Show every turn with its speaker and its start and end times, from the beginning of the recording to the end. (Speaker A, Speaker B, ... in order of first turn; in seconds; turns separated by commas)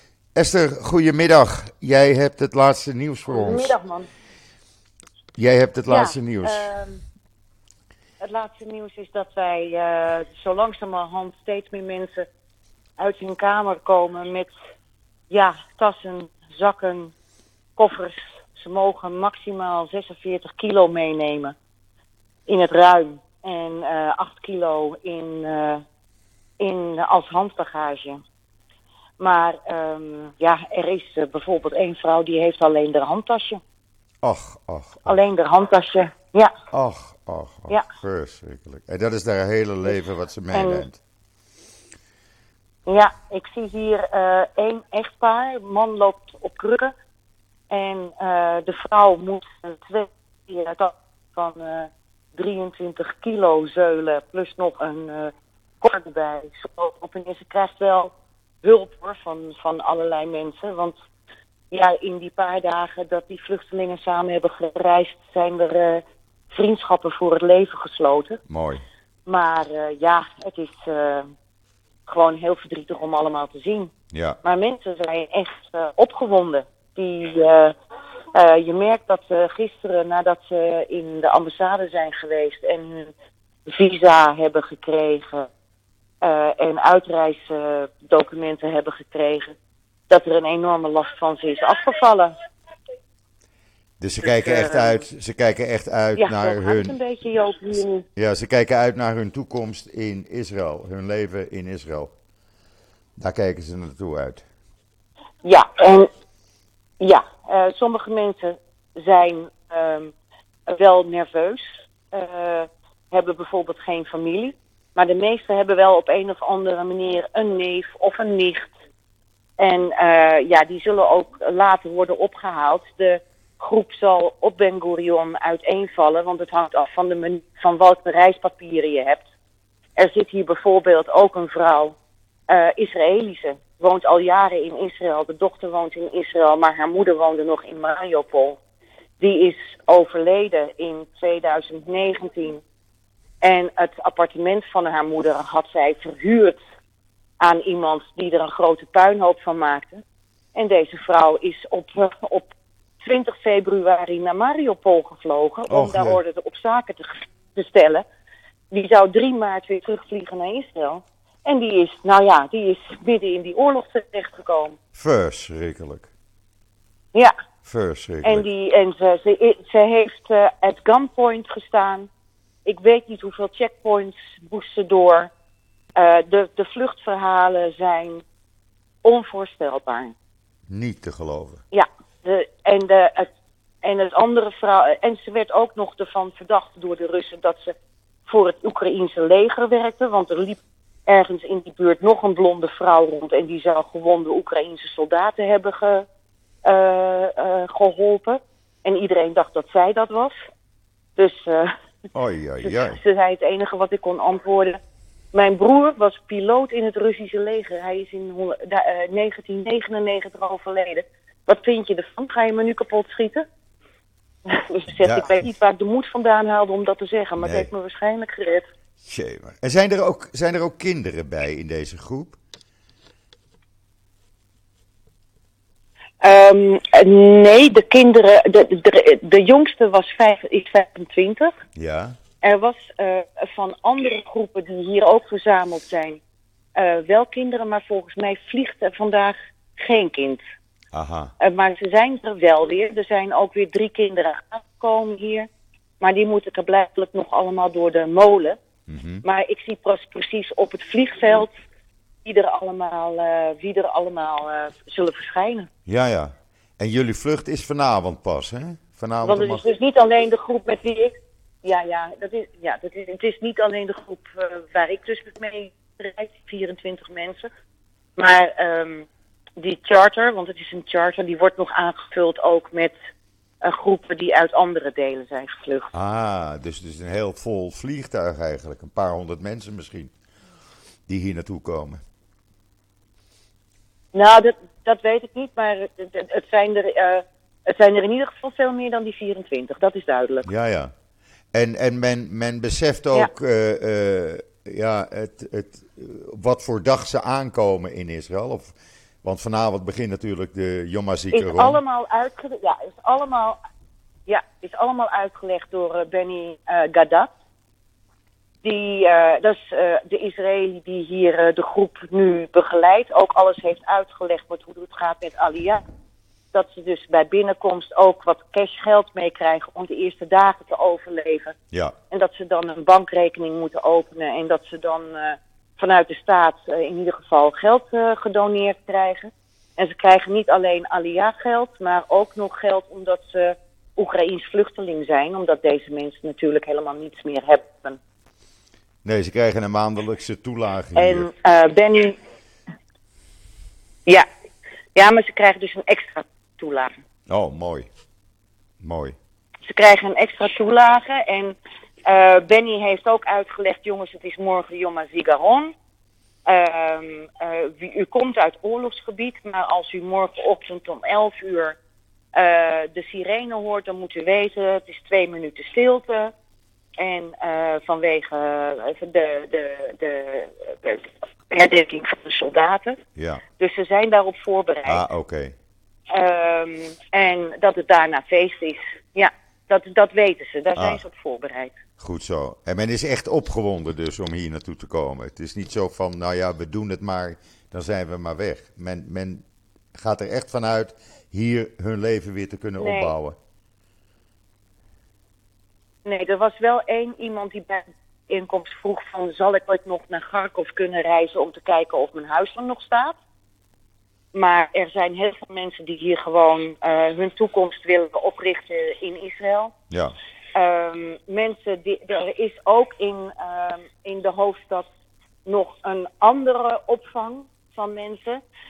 Speaker A: 0.4-3.7, Speaker B: 3.3-4.1, Speaker A: 5.4-6.7, Speaker B: 5.9-7.0, Speaker B: 8.2-12.2, Speaker B: 13.0-14.5, Speaker B: 15.3-17.1, Speaker B: 17.8-21.6, Speaker B: 22.5-25.8, Speaker B: 26.6-28.2, Speaker B: 29.2-33.6, Speaker A: 34.2-35.2, Speaker B: 35.1-36.5, Speaker A: 36.7-41.0, Speaker B: 39.9-40.9, Speaker B: 42.9-46.9, Speaker B: 47.7-58.1, Speaker B: 58.6-61.0, Speaker B: 61.7-68.4, Speaker A: 68.5-68.8, Speaker B: 69.3-71.3, Speaker B: 72.1-73.9, Speaker A: 74.1-74.4, Speaker B: 74.4-77.7, Speaker B: 78.3-83.1, Speaker B: 83.7-85.5, Speaker B: 86.2-89.5, Speaker B: 90.1-92.3, Speaker A: 94.0-97.0, Speaker B: 94.2-95.0, Speaker B: 96.2-98.0, Speaker A: 98.2-102.1, Speaker A: 103.2-104.4, Speaker B: 105.4-106.1, Speaker B: 107.0-110.1, Speaker B: 110.7-118.7, Speaker B: 119.6-129.3, Speaker B: 130.0-132.0, Speaker B: 132.5-138.6, Speaker B: 139.2-142.6, Speaker B: 143.4-146.6, Speaker B: 147.4-150.0, Speaker B: 150.6-158.0, Speaker A: 155.7-156.2, Speaker B: 158.7-164.8, Speaker A: 165.0-166.1, Speaker A: 167.7-168.5, Speaker B: 168.2-172.1, Speaker B: 172.7-175.3, Speaker B: 176.0-178.2, Speaker B: 179.0-180.1, Speaker A: 180.7-181.6, Speaker B: 181.7-183.3, Speaker B: 183.8-187.8, Speaker B: 188.3-196.1, Speaker B: 196.7-200.4, Speaker B: 201.2-201.7, Speaker A: 202.1-203.0, Speaker B: 202.6-204.8, Speaker B: 205.3-213.4, Speaker B: 214.5-218.7, Speaker A: 215.0-215.5, Speaker A: 217.4-217.7, Speaker A: 219.0-222.4, Speaker B: 226.2-231.5, Speaker A: 231.8-232.2, Speaker B: 232.4-236.2, Speaker B: 236.8-240.4, Speaker A: 240.9-241.3, Speaker B: 241.4-245.5, Speaker B: 246.0-248.6, Speaker A: 248.9-249.2, Speaker B: 249.2-251.5, Speaker B: 252.2-255.7, Speaker A: 255.9-259.6, Speaker B: 259.2-267.5, Speaker B: 268.2-269.1, Speaker B: 269.6-272.9, Speaker B: 273.6-275.9, Speaker A: 275.9-280.1, Speaker A: 281.1-282.0, Speaker B: 284.1-290.5, Speaker A: 290.4-290.9, Speaker A: 291.5-301.8, Speaker B: 301.3-303.6, Speaker B: 304.3-307.3, Speaker B: 308.6-315.8, Speaker B: 316.5-321.6, Speaker B: 322.1-338.0, Speaker A: 339.1-341.3, Speaker B: 340.9-342.2, Speaker B: 344.9-346.9, Speaker A: 347.3-347.9, Speaker A: 348.8-349.1, Speaker B: 349.7-355.7, Speaker B: 356.5-361.8, Speaker B: 362.4-366.3, Speaker B: 367.0-373.0, Speaker A: 373.2-373.4, Speaker B: 373.6-375.0, Speaker A: 374.9-375.5, Speaker B: 376.1-381.8, Speaker A: 380.8-381.0, Speaker A: 382.0-389.4, Speaker A: 389.9-393.4, Speaker B: 392.8-393.1, Speaker B: 396.1-403.2, Speaker B: 404.3-409.7, Speaker B: 410.5-414.9, Speaker B: 415.4-418.4